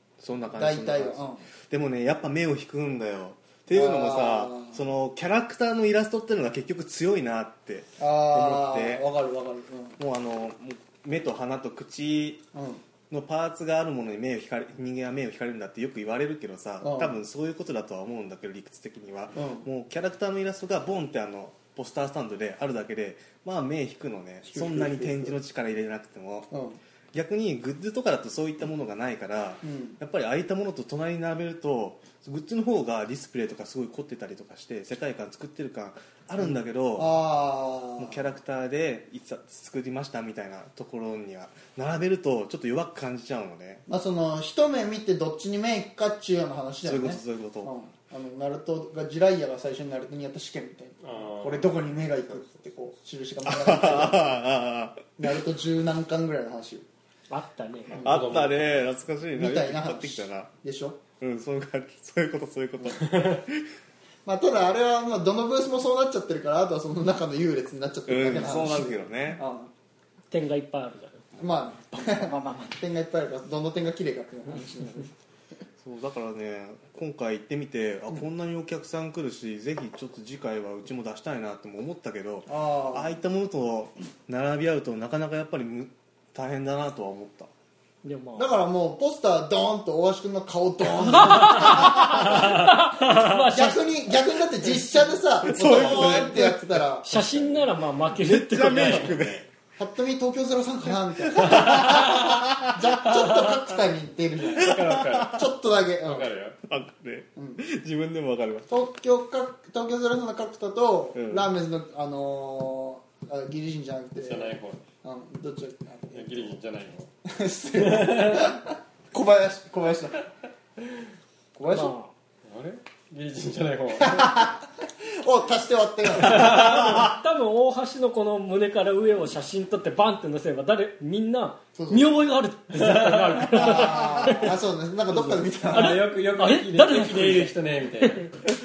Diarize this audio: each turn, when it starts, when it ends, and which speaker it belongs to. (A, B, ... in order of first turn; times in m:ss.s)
0:00.2-0:09.0 A
0:00.5-0:01.4 B
0:03.7-0:04.8 B
0:08.0-0:10.0 B
0:10.0-0:12.4 A
0:12.5-0:12.8 B
0:13.1-0:26.5 A
0:16.8-0:17.2 B
0:19.3-0:19.7 B
0:24.4-0:25.4 B
0:26.5-0:26.8 B
0:27.1-0:37.2 A
0:29.6-0:30.0 B
0:36.4-0:38.2 B
0:38.0-0:43.8 A
0:43.9-0:54.4 B
0:46.8-0:47.7 A
0:51.0-0:51.7 C
0:53.4-0:55.1 A
0:55.2-0:56.8 B
0:57.3-0:58.0 D
0:57.9-0:58.2 B
0:58.0-0:58.7 C
0:58.0-1:00.5 A
0:59.4-1:01.0 B
1:01.2-1:03.7 A
1:03.0-1:03.4 C
1:04.2-1:09.7 B
1:08.1-1:09.4 A
1:10.3-1:11.2 D
1:11.4-1:15.1 B
1:12.2-1:12.6 D
1:15.8-1:27.5 A
1:22.5-1:23.1 B
1:28.0-1:28.5 D
1:28.4-1:37.1 B
1:31.1-1:34.1 D
1:31.6-1:32.2 A
1:35.4-1:37.2 A
1:35.8-1:36.3 C
1:37.0-1:39.2 D
1:38.1-1:39.5 A
1:38.8-1:39.4 C
1:39.8-1:46.3 B
1:41.2-1:43.5 A
1:44.5-1:45.4 C
1:44.5-1:45.4 A
1:46.0-1:46.6 C
1:46.7-1:48.7 A
1:47.4-1:47.6 B
1:48.7-1:56.5 B
1:51.1-1:51.5 A
1:54.2-1:54.8 C
1:56.1-1:57.1 C
1:57.2-2:00.3 B
1:57.8-1:58.5 C
2:01.5-2:01.9 B
2:01.7-2:02.1 D
2:02.4-2:04.3 C
2:04.0-2:07.0 B
2:06.3-2:14.5 D
2:06.4-2:07.0 C
2:11.8-2:12.1 B
2:12.7-2:13.8 C
2:13.5-2:16.0 B
2:15.1-2:18.3 C
2:15.7-2:17.5 D